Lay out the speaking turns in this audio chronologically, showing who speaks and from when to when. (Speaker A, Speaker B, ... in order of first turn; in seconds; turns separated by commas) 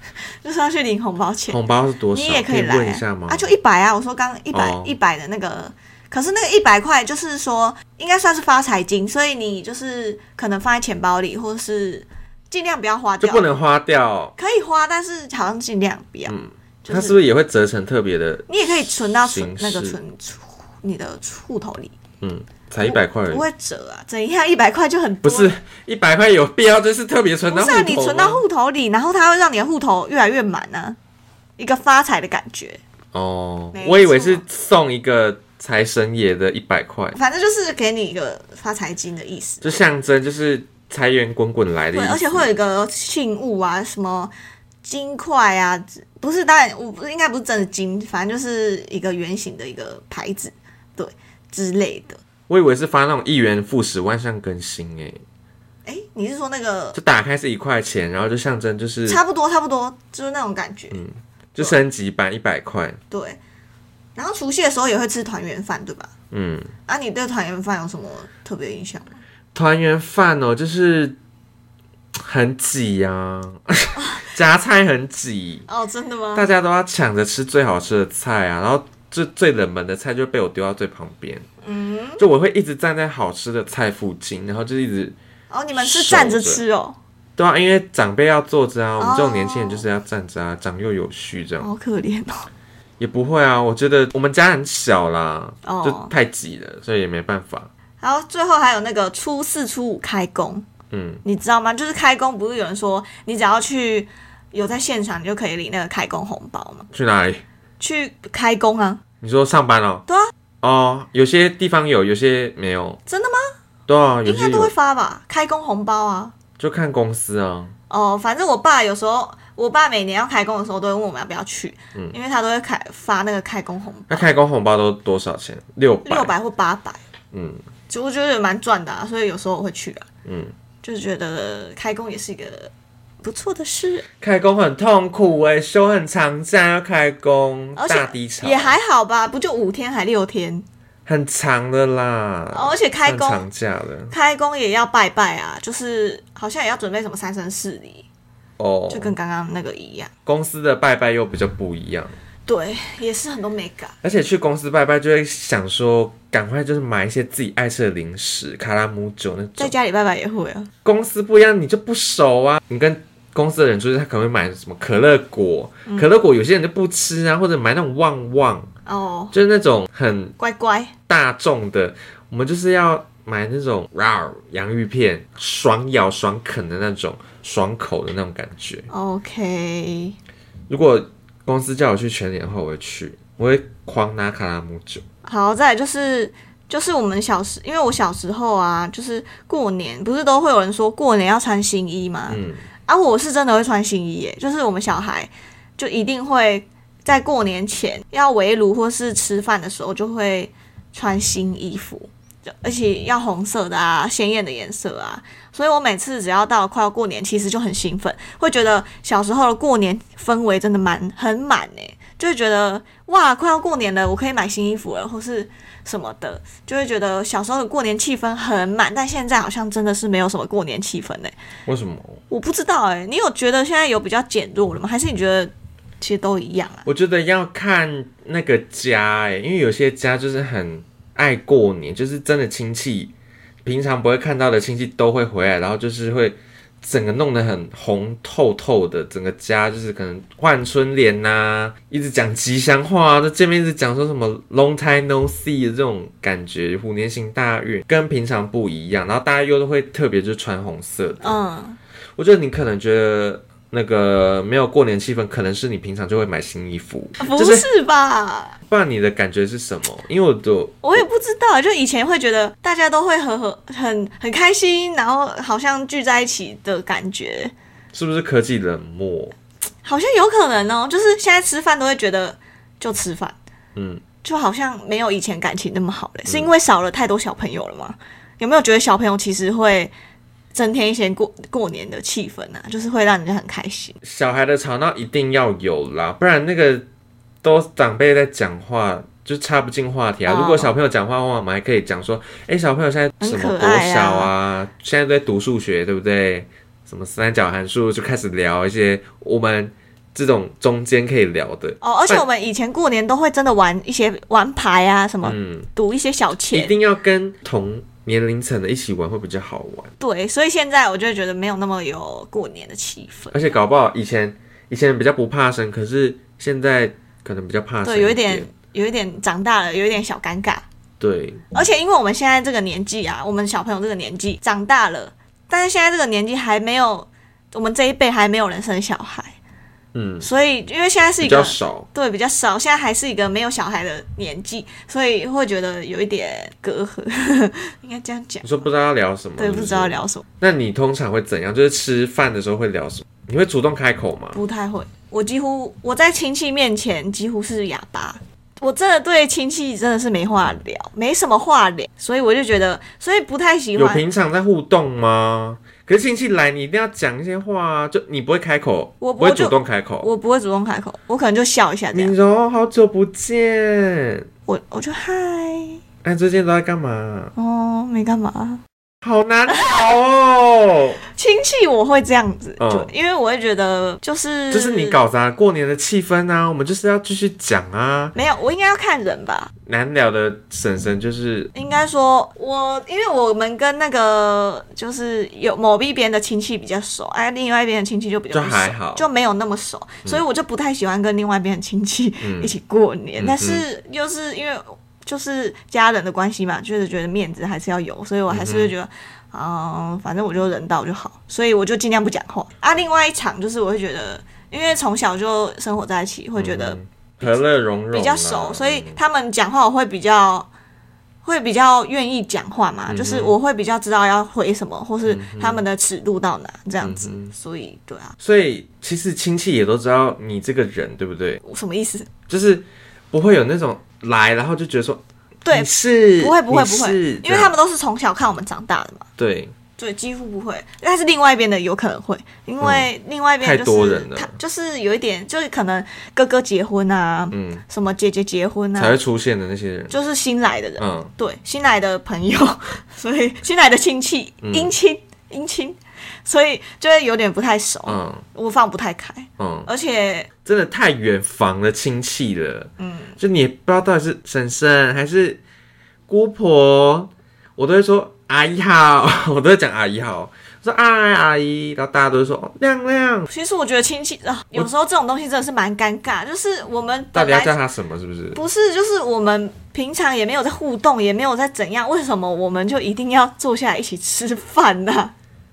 Speaker A: 0.4-1.6, Speaker B: 1.5-3.5, Speaker A: 2.1-13.5, Speaker B: 4.5-4.9, Speaker B: 13.2-14.3, Speaker A: 14.4-17.2, Speaker B: 16.3-20.0, Speaker A: 18.5-21.9, Speaker B: 22.2-23.4, Speaker A: 22.8-25.5, Speaker B: 25.2-28.4, Speaker A: 27.5-31.0, Speaker A: 31.6-32.8, Speaker B: 33.1-37.2, Speaker A: 33.7-34.4, Speaker A: 37.1-39.8, Speaker B: 39.6-42.5, Speaker A: 41.9-44.3, Speaker A: 44.8-52.2, Speaker B: 52.5-55.2, Speaker A: 55.9-57.0, Speaker B: 56.9-59.2, Speaker A: 59.0-61.0, Speaker B: 60.9-63.0, Speaker A: 63.1-63.4, Speaker A: 64.2-66.1, Speaker B: 66.3-66.7, Speaker A: 66.9-69.2, Speaker B: 69.5-71.2, Speaker B: 72.2-75.7, Speaker A: 74.0-74.2, Speaker A: 75.7-76.5, Speaker B: 76.3-81.5, Speaker A: 81.6-82.2, Speaker B: 82.2-85.2, Speaker A: 85.5-87.0, Speaker B: 85.8-86.6, Speaker B: 87.4-91.7, Speaker A: 89.0-89.8, Speaker A: 91.6-92.5, Speaker B: 93.0-97.7, Speaker A: 95.6-96.1, Speaker A: 98.0-100.7, Speaker B: 100.9-101.2, Speaker A: 101.2-106.9, Speaker B: 106.9-107.4, Speaker A: 107.8-109.0, Speaker B: 109.2-110.0, Speaker B: 110.6-113.0, Speaker A: 113.1-113.4, Speaker B: 113.9-114.7, Speaker A: 114.2-116.3, Speaker B: 116.6-117.7, Speaker A: 117.9-124.3, Speaker B: 124.1-126.3, Speaker A: 126.0-127.0, Speaker B: 127.3-127.6, Speaker A: 127.9-130.1, Speaker B: 130.2-130.5, Speaker A: 130.8-132.7, Speaker A: 133.2-134.1, Speaker B: 134.2-138.8, Speaker A: 137.8-140.6, Speaker B: 141.1-144.1, Speaker A: 142.5-143.4, Speaker A: 144.1-148.1, Speaker B: 148.6-149.1, Speaker A: 148.9-150.1, Speaker B: 150.2-152.1, Speaker A: 152.4-153.9, Speaker B: 154.0-159.7, Speaker A: 159.6-160.7, Speaker B: 160.8-168.7, Speaker A: 168.8-169.3, Speaker B: 169.3-170.3, Speaker A: 170.4-170.9, Speaker B: 171.1-178.9, Speaker A: 178.9-180.2, Speaker B: 180.7-185.0, Speaker A: 185.2-221.3, Speaker B: 192.3-192.6, Speaker B: 221.7-222.2, Speaker A: 222.3-226.8, Speaker B: 226.8-233.1, Speaker B: 233.6-251.3, Speaker A: 251.2-251.8, Speaker B: 252.2-257.6, Speaker A: 257.2-258.6, Speaker B: 258.7-261.0, Speaker A: 260.8-267.5, Speaker B: 267.9-269.3, Speaker A: 269.8-273.4, Speaker B: 273.7-274.0, Speaker A: 274.2-279.9, Speaker B: 276.3-276.5, Speaker A: 280.5-283.9, Speaker B: 284.0-286.9, Speaker B: 287.4-302.2, Speaker A: 290.2-290.7, Speaker A: 293.2-294.3, Speaker A: 301.8-306.7, Speaker B: 305.2-305.7, Speaker B: 306.5-309.9, Speaker A: 310.0-313.4, Speaker B: 313.3-318.5, Speaker A: 317.8-320.6, Speaker B: 321.0-321.4, Speaker A: 321.5-329.4, Speaker B: 329.9-330.3, Speaker A: 330.2-338.5, Speaker B: 331.2-331.9, Speaker B: 338.4-344.4, Speaker A: 339.4-340.2, Speaker A: 344.3-354.0, Speaker B: 353.8-360.1, Speaker A: 359.0-362.1, Speaker B: 361.9-364.3, Speaker A: 364.5-365.8, Speaker B: 366.0-367.3, Speaker A: 367.4-368.6, Speaker B: 369.0-371.0, Speaker A: 371.1-375.0, Speaker B: 372.6-372.9, Speaker B: 374.5-378.1, Speaker A: 378.1-379.5, Speaker B: 379.6-381.5, Speaker A: 381.5-410.5, Speaker B: 388.3-389.1, Speaker B: 392.2-392.5, Speaker B: 393.2-393.6, Speaker B: 398.3-398.7, Speaker B: 406.4-409.0, Speaker A: 411.2-418.1, Speaker B: 412.9-413.4, Speaker B: 415.1-415.6, Speaker B: 416.8-417.3, Speaker B: 418.2-421.4, Speaker A: 421.4-422.1, Speaker B: 422.3-427.5, Speaker A: 425.4-429.1, Speaker B: 429.2-429.5, Speaker A: 429.8-438.9, Speaker B: 432.6-432.9, Speaker B: 433.4-434.3, Speaker B: 437.3-437.6, Speaker B: 438.8-440.0, Speaker A: 439.9-450.3, Speaker B: 440.8-441.1, Speaker B: 444.4-444.7, Speaker B: 447.9-448.2, Speaker B: 449.4-449.7, Speaker B: 450.4-455.4, Speaker A: 452.8-453.2, Speaker B: 456.1-463.3, Speaker A: 463.3-467.5, Speaker B: 467.1-468.4, Speaker A: 468.3-475.1